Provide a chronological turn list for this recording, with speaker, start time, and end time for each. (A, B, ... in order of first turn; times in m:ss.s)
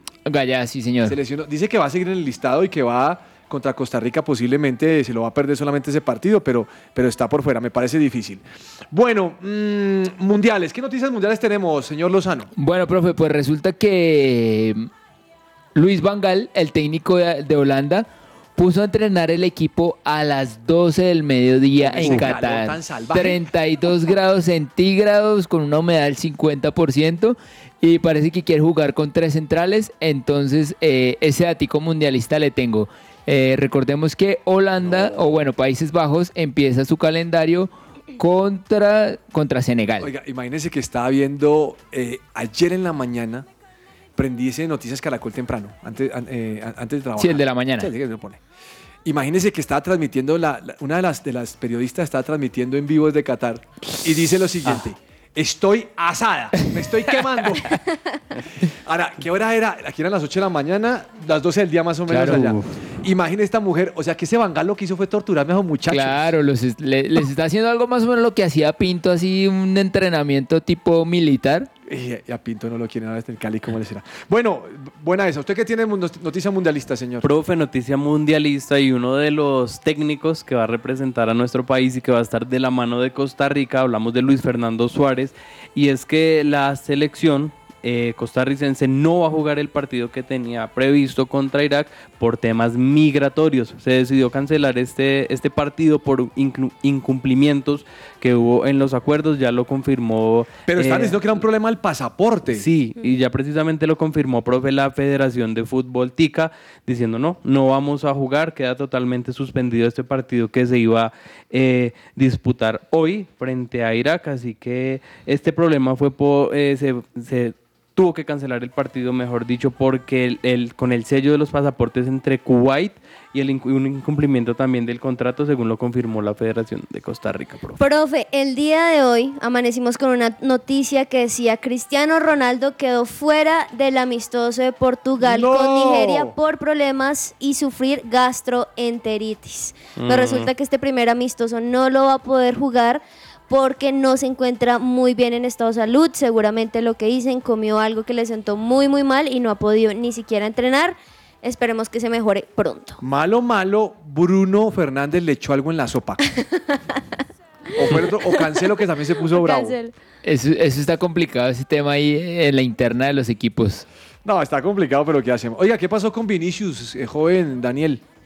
0:00.2-0:01.2 A
0:01.0-0:12.5 B
0:12.6-0:14.9 A
0:15.7-0:40.1 A
0:21.8-0:23.4 B
0:22.0-0:22.3 C
0:40.0-0:43.4 B
0:44.2-0:48.4 B
0:47.2-0:47.9 A
0:49.0-0:58.0 B
0:58.6-1:06.2 B
1:02.1-1:02.7 C
1:02.1-1:02.6 A
1:05.9-1:11.7 A
1:11.9-1:17.3 B
1:17.2-1:41.4 C
1:40.7-1:42.7 B
1:42.5-2:07.8 C
2:07.8-2:33.0 D
2:15.2-2:16.3 B
2:20.0-2:20.5 C
2:33.0-2:36.4 B
2:36.7-2:37.0 D
2:37.7-2:39.8 B
2:37.9-2:38.6 D
2:39.3-2:39.9 D
2:40.2-2:43.8 A
2:44.2-2:48.0 B